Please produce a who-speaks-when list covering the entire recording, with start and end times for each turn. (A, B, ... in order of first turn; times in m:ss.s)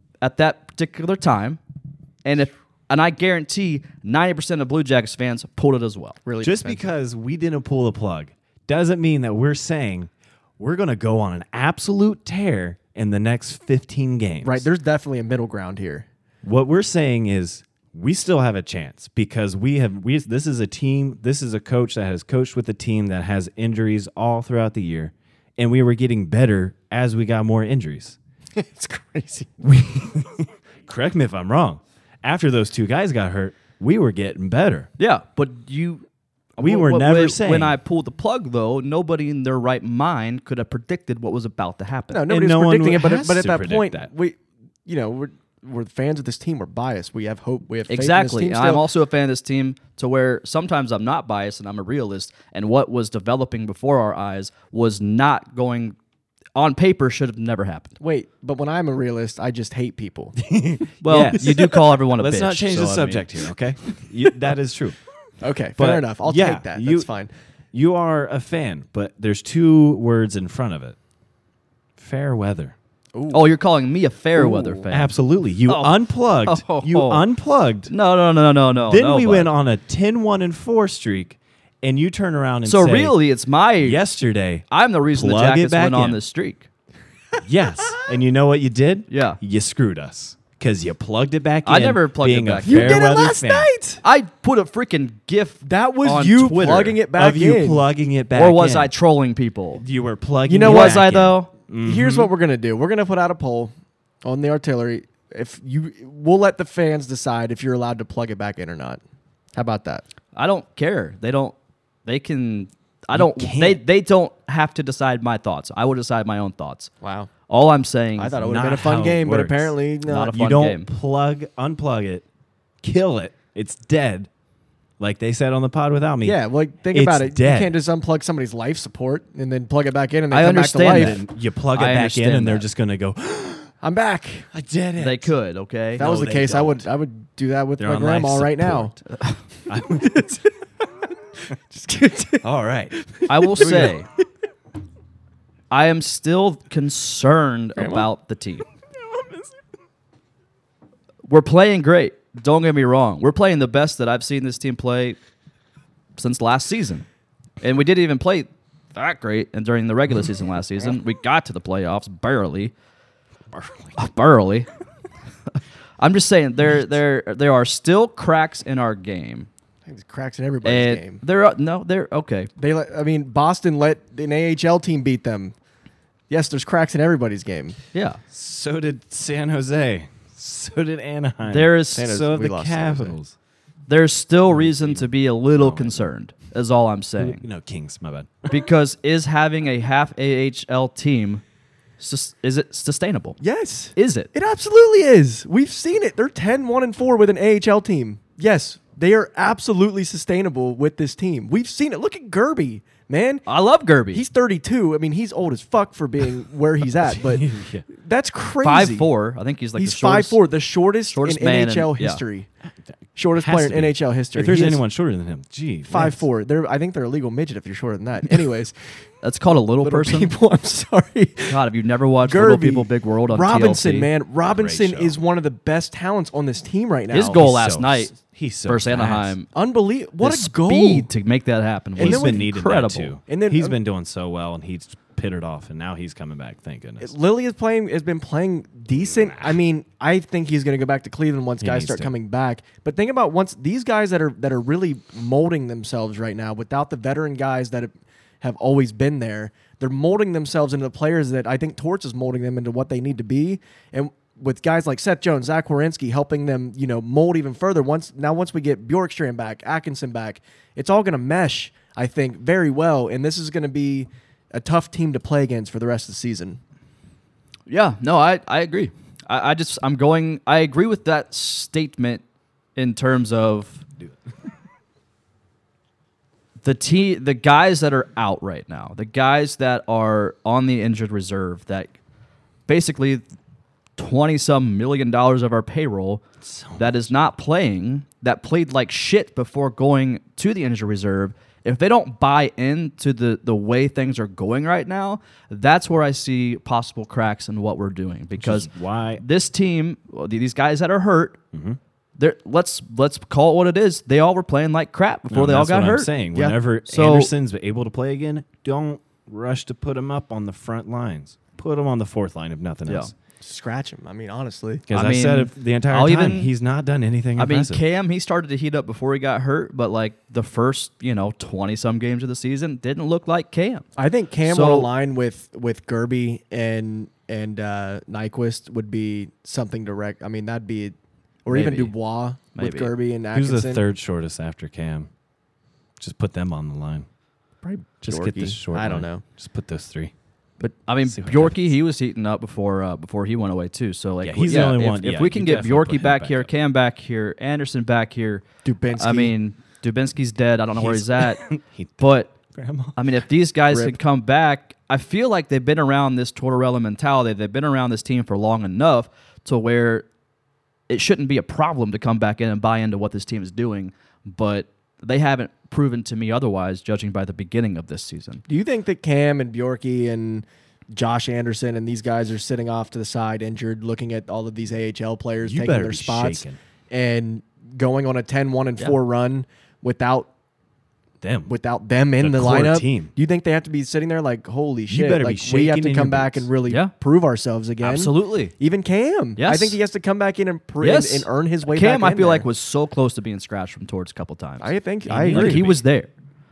0:00.2-0:01.6 A
0:02.2-0:06.2 A
0:06.2-0:06.9 B
0:06.4-0:14.7 C
0:14.4-0:16.0 B
0:16.4-0:28.2 C
0:28.6-0:29.5 B
0:29.6-0:34.9 C
0:35.0-0:36.0 A
0:36.6-0:42.2 A
0:36.6-0:37.8 C
0:42.1-0:48.8 B
0:42.3-0:44.1 C
0:47.9-0:56.0 A
0:56.5-0:58.0 A
0:58.0-1:00.5 B
1:00.4-1:05.0 C
1:01.0-1:03.3 A
1:05.4-1:07.3 B
1:05.8-1:07.1 C
1:07.7-1:11.0 C
1:12.0-1:12.7 C
1:13.1-1:13.5 B
1:13.3-1:15.1 A
1:14.5-1:14.8 B
1:14.9-1:17.9 C
1:15.6-1:17.2 A
1:17.9-1:19.5 A
1:18.8-1:23.2 C
1:22.6-1:24.0 A
1:23.8-1:26.2 C
1:24.7-1:26.7 A
1:27.4-1:33.7 C
1:29.1-1:29.4 A
1:31.6-1:33.1 A
1:32.6-1:34.0 B
1:34.0-1:37.0 A
1:35.6-1:37.8 B
1:37.1-1:38.9 C
1:38.3-1:39.8 A
1:39.8-1:42.3 C
1:40.5-1:41.0 B
1:40.6-1:41.5 A
1:41.8-1:49.0 B
1:49.5-1:50.0 B
1:50.3-1:51.5 A
1:52.0-1:56.9 A
1:53.1-1:53.8 C
1:57.0-1:57.3 B
1:57.5-1:58.3 A
1:58.2-2:00.4 B
1:58.4-1:59.7 C
2:00.1-2:00.9 A
2:00.3-2:02.2 C
2:02.8-2:04.3 C
2:05.0-2:06.4 C
2:06.2-2:11.2 B
2:06.9-2:07.7 C
2:10.3-2:12.6 A
2:10.9-2:13.7 C
2:13.8-2:14.5 B
2:14.5-2:15.3 C
2:15.0-2:16.8 A
2:16.0-2:18.9 B
2:17.8-2:19.0 C
2:19.7-2:20.4 C
2:19.7-2:20.4 B
2:21.4-2:24.0 B
2:22.4-2:23.0 C
2:23.3-2:24.1 A
2:23.6-2:23.9 C
2:25.7-2:28.6 A
2:27.8-2:28.1 B
2:31.3-2:35.2 A
2:36.2-2:37.0 A
2:37.6-2:42.7 A
2:43.5-2:43.9 C
2:44.0-2:44.7 A
2:46.0-2:49.5 A
2:49.8-2:51.2 B
2:50.6-2:52.5 A
2:52.6-2:55.5 B
2:56.3-2:57.8 B
2:57.9-2:58.2 A
2:58.3-3:03.4 C
3:01.5-3:02.1 A
3:01.9-3:03.2 B
3:03.9-3:07.4 A
3:04.5-3:06.1 C
3:07.2-3:08.5 C
3:08.5-3:11.4 A
3:12.0-3:13.4 A
3:13.4-3:23.4 B
3:14.0-3:14.3 A
3:23.5-3:24.2 A
3:24.1-3:29.1 B
3:27.0-3:27.8 C
3:28.6-3:30.4 A
3:29.8-3:32.5 B
3:31.1-3:32.2 A
3:33.2-3:34.8 B
3:33.4-3:36.2 C
3:35.9-3:38.7 B
3:39.2-3:40.3 A
3:39.8-3:41.6 B
3:41.5-3:44.1 A
3:42.2-3:47.4 B
3:44.4-3:45.2 C
3:47.1-3:48.1 A
3:47.3-3:49.4 C
3:48.6-3:49.5 A
3:49.5-3:51.1 B
3:50.2-3:53.1 A
3:52.0-3:52.4 B
3:52.0-3:57.1 C
3:53.3-3:53.8 B
3:57.0-4:26.6 B
3:59.0-3:59.6 C
4:01.6-4:02.1 C
4:27.7-4:32.2 A
4:32.8-4:33.8 A
4:36.6-4:42.0 A
4:42.7-4:43.2 A
4:44.0-4:46.2 A
4:46.4-4:47.0 C
4:46.8-5:01.4 A
4:58.4-4:59.2 C
5:01.5-5:01.8 C
5:02.2-5:06.1 A
5:05.3-5:13.1 C
5:06.9-5:07.3 A
5:12.8-5:13.1 A
5:13.4-5:14.8 B
5:14.9-5:17.8 C
5:14.9-5:16.5 A
5:17.4-5:23.8 A
5:24.0-5:33.8 B
5:24.4-5:24.9 A
5:31.5-5:31.9 A
5:32.5-5:32.9 A
5:33.3-5:35.1 C
5:36.0-5:37.1 C
5:37.6-5:39.2 B
5:38.0-5:40.1 C
5:40.8-5:51.4 A
5:41.0-5:41.7 C
5:44.2-5:46.5 C
5:48.6-5:49.3 B
5:50.8-5:53.0 C
5:52.0-5:52.3 A
5:53.0-6:00.1 A
6:00.9-6:08.4 A
6:08.5-6:20.3 B
6:15.4-6:16.6 C
6:21.2-6:21.5 C
6:21.5-6:32.5 B
6:22.2-6:23.1 C
6:24.9-6:26.5 C
6:27.8-6:28.5 A
6:29.4-6:29.8 A
6:30.8-6:36.1 A
6:34.6-6:35.7 B
6:35.1-6:35.8 C